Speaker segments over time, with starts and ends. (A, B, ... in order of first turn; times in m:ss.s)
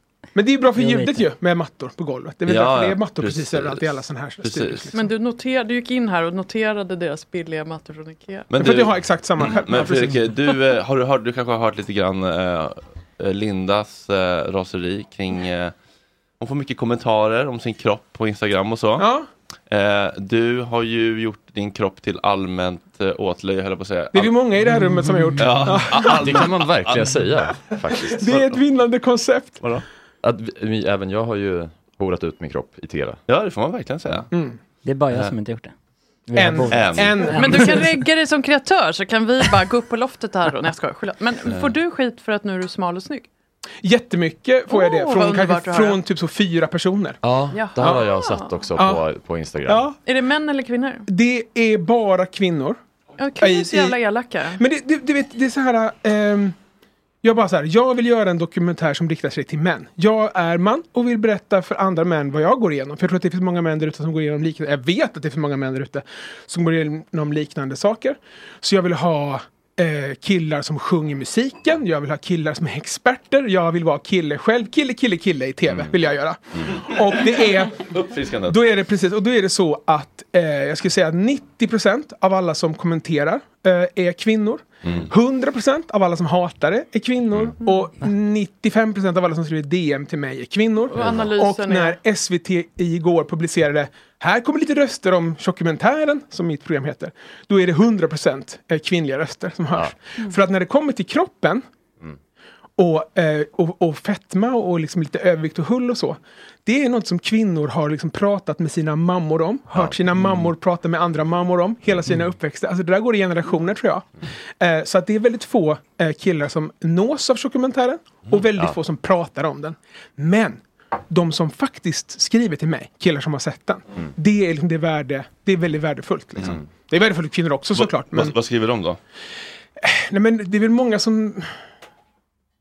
0:00.3-0:05.1 A
0:00.8-0:01.2 B
0:02.4-0:04.9 C
0:04.9-0:08.5 D
0:08.5-0:15.7 C
0:08.5-0:10.3 A
0:16.4-0:19.1 C
0:19.0-0:19.3 A
0:19.7-0:24.4 C
0:24.1-0:26.4 A
0:25.4-0:27.1 C
0:26.2-0:28.2 E
0:27.9-0:29.6 A
0:28.2-0:28.6 C
0:30.2-0:33.2 E
0:33.3-0:34.3 C
0:34.3-0:34.6 A
0:34.8-0:35.7 B
0:36.3-0:38.0 B
0:36.3-0:37.8 A
0:36.7-0:37.3 C
0:37.3-0:43.2 D
0:41.4-0:41.8 C
0:43.8-0:47.2 A
0:44.7-0:46.0 D
0:47.2-0:49.9 E
0:47.5-0:48.6 D
0:47.8-0:48.1 A
0:48.8-0:49.0 A
0:49.6-0:50.0 A
0:50.0-0:51.0 D
0:51.1-0:52.8 A
0:53.2-0:54.6 D
0:53.4-0:54.0 A
0:54.5-0:56.5 A
0:57.2-1:17.9 A
1:16.6-1:18.7 C
1:18.4-1:41.6 A
1:24.8-1:25.1 C
1:30.9-1:32.0 D
1:42.8-1:54.1 A
1:54.6-2:08.4 A
2:07.7-2:09.0 C
2:09.8-2:11.5 A